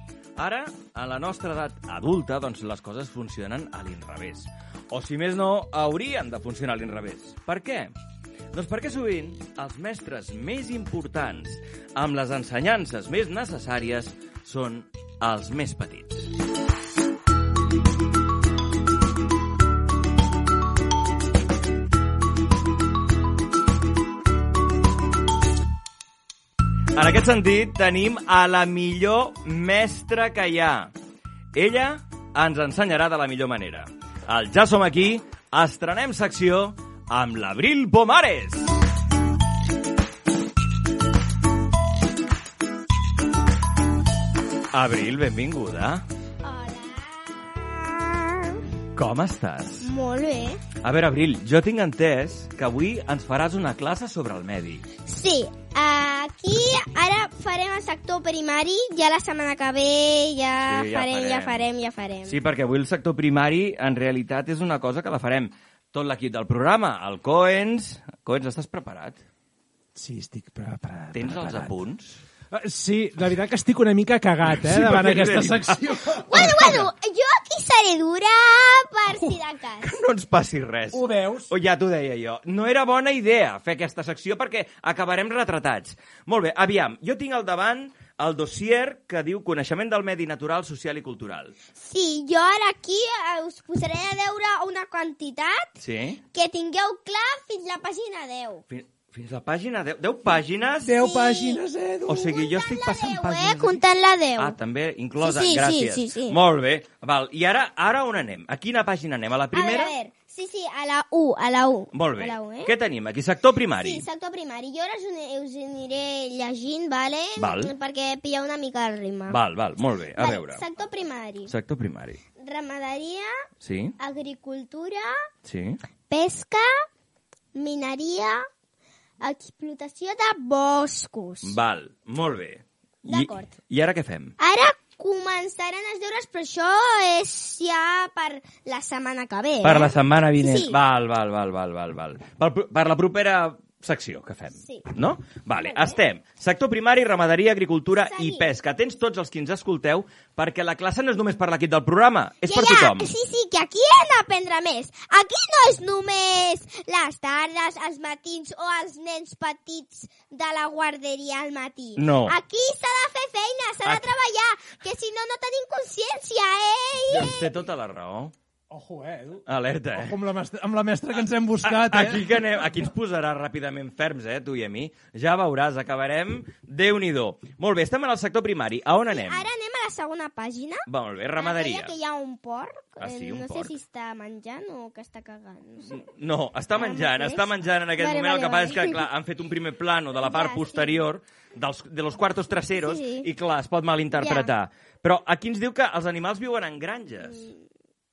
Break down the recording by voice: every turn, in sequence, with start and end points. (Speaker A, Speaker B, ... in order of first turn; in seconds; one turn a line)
Speaker A: 0.4-7.9
Speaker A: 8.5-16.3
Speaker A: 26.9-30.9
Speaker A: 31.5-38.7
Speaker A: 44.7-46.0
Speaker B: 46.4-48.6
Speaker A: 49.0-49.9
Speaker B: 49.8-50.6
Speaker A: 50.8-54.8
Speaker B: 55.0-62.4
Speaker A: 60.6-61.7
Speaker A: 62.2-69.2
Speaker C: 70.0-71.8
Speaker A: 71.1-72.2
Speaker C: 72.5-76.8
Speaker A: 74.5-76.8
Speaker B: 76.3-79.9
Speaker A: 79.8-91.5
Speaker C: 80.9-81.5
Speaker B: 91.8-95.7
Speaker A: 95.8-96.2
Speaker B: 96.3-98.6
Speaker A: 98.7-101.1
Speaker C: 100.8-102.1
Speaker B: 101.0-101.6
Speaker A: 102.0-103.8
Speaker B: 102.1-104.5
Speaker A: 104.4-109.9
Speaker B: 105.2-106.4
Speaker B: 109.5-112.7
Speaker A: 111.9-114.0
Speaker B: 113.8-119.4
Speaker A: 117.4-117.7
Speaker A: 119.3-120.6
Speaker B: 120.2-121.5
Speaker A: 121.5-122.2
Speaker B: 122.4-123.3
Speaker A: 123.6-123.9
Speaker B: 124.0-125.1
Speaker A: 125.4-125.8
Speaker B: 126.1-126.7
Speaker B: 127.5-128.4
Speaker B: 129.2-131.6
Speaker A: 131.4-134.3
Speaker B: 133.0-133.5
Speaker B: 134.4-140.8
Speaker A: 139.6-153.1
Speaker B: 144.6-144.8
Speaker B: 145.6-146.0
Speaker B: 148.0-148.5
Speaker B: 152.4-167.4
Speaker A: 161.9-162.4
Speaker A: 163.8-164.1
Speaker A: 167.1-168.3
Speaker C: 168.7-169.4
Speaker A: 169.4-170.2
Speaker C: 169.9-172.4
Speaker A: 171.2-179.5
Speaker B: 179.1-180.8
Speaker A: 180.9-181.9
Speaker B: 181.4-186.1
Speaker A: 183.0-183.8
Speaker A: 185.9-197.5
Speaker B: 186.7-189.0
Speaker B: 190.2-191.0
Speaker B: 192.7-193.3
Speaker B: 194.2-194.5
Speaker B: 197.2-197.6